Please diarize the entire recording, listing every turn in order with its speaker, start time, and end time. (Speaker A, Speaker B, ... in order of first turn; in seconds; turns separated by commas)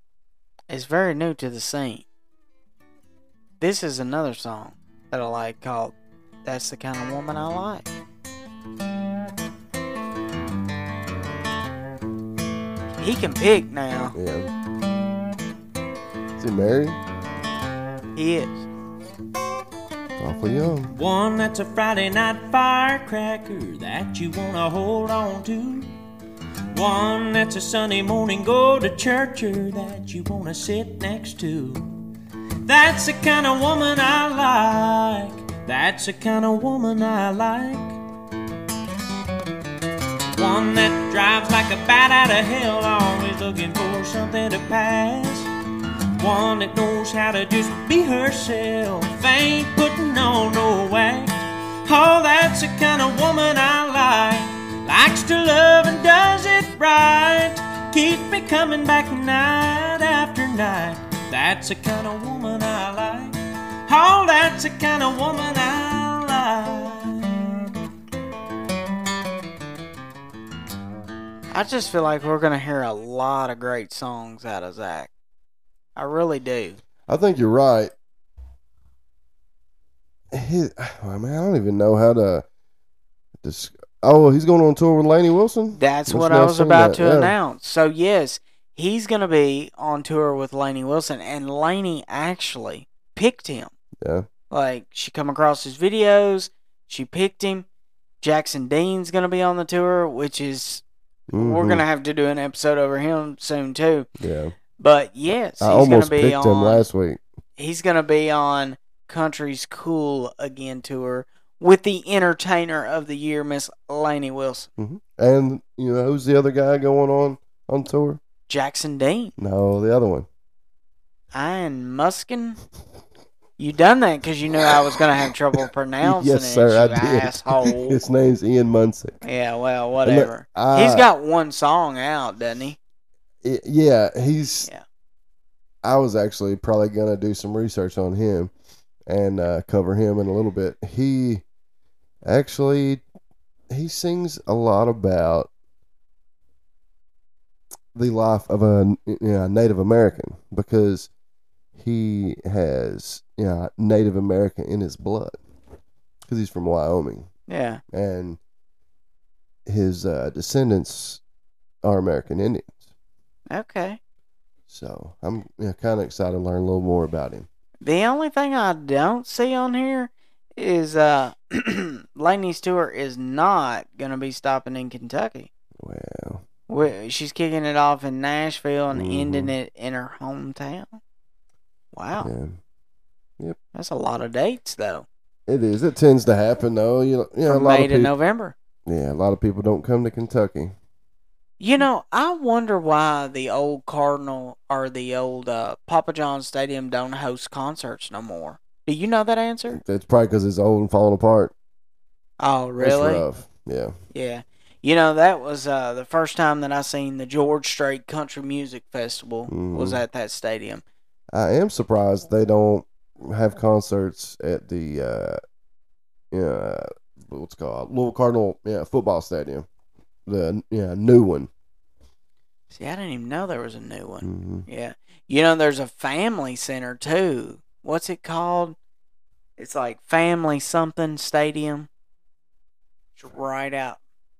Speaker A: 0.7-2.0, Speaker A: 3.6-7.9, Speaker A: 13.0-14.2, Speaker B: 14.1-14.5, Speaker B: 16.4-17.0, Speaker A: 18.1-18.6, Speaker B: 20.2-20.9, Speaker C: 20.9-25.9, Speaker C: 26.7-31.9, Speaker C: 32.6-38.0, Speaker C: 40.3-45.5, Speaker C: 46.2-67.5, Speaker A: 71.5-75.1, Speaker A: 76.0-76.8, Speaker B: 77.1-77.9, Speaker B: 80.3-82.4, Speaker B: 83.4-87.3, Speaker A: 85.8-93.7, Speaker B: 94.0-94.3, Speaker A: 94.5-97.7, Speaker A: 98.2-100.8, Speaker B: 101.3-101.8, Speaker A: 101.3-104.1, Speaker B: 104.2-104.5, Speaker A: 104.8-106.8, Speaker B: 105.6-107.2, Speaker A: 107.6-114.7, Speaker B: 114.8-118.2, Speaker A: 118.5-119.3, Speaker B: 119.4-120.3, Speaker A: 121.3-122.6, Speaker A: 123.6-128.0, Speaker B: 126.0-129.2, Speaker A: 129.2-132.8, Speaker B: 130.0-131.1, Speaker B: 133.4-134.7, Speaker B: 135.8-138.5, Speaker B: 139.1-141.4, Speaker B: 142.2-143.0, Speaker B: 143.7-145.5, Speaker B: 147.9-151.1, Speaker B: 151.8-155.4, Speaker B: 156.3-157.3, Speaker A: 157.5-157.8, Speaker B: 157.9-158.4, Speaker B: 159.7-161.2, Speaker B: 161.8-162.8, Speaker A: 163.5-164.0, Speaker B: 164.7-167.5, Speaker A: 167.8-175.5, Speaker B: 175.8-176.4, Speaker A: 176.7-181.0, Speaker B: 178.9-179.5, Speaker A: 181.9-182.3, Speaker B: 182.2-182.6, Speaker A: 183.7-185.1, Speaker B: 185.5-188.1, Speaker A: 187.5-188.5, Speaker B: 188.9-190.7, Speaker A: 191.6-199.8, Speaker B: 199.7-201.5, Speaker A: 202.4-203.2, Speaker B: 202.8-203.9, Speaker A: 204.1-210.8, Speaker B: 209.5-210.0, Speaker B: 211.3-215.4, Speaker B: 216.3-219.7, Speaker B: 220.2-221.5, Speaker A: 222.7-228.8, Speaker B: 224.2-224.7, Speaker A: 229.6-231.9, Speaker A: 233.2-234.0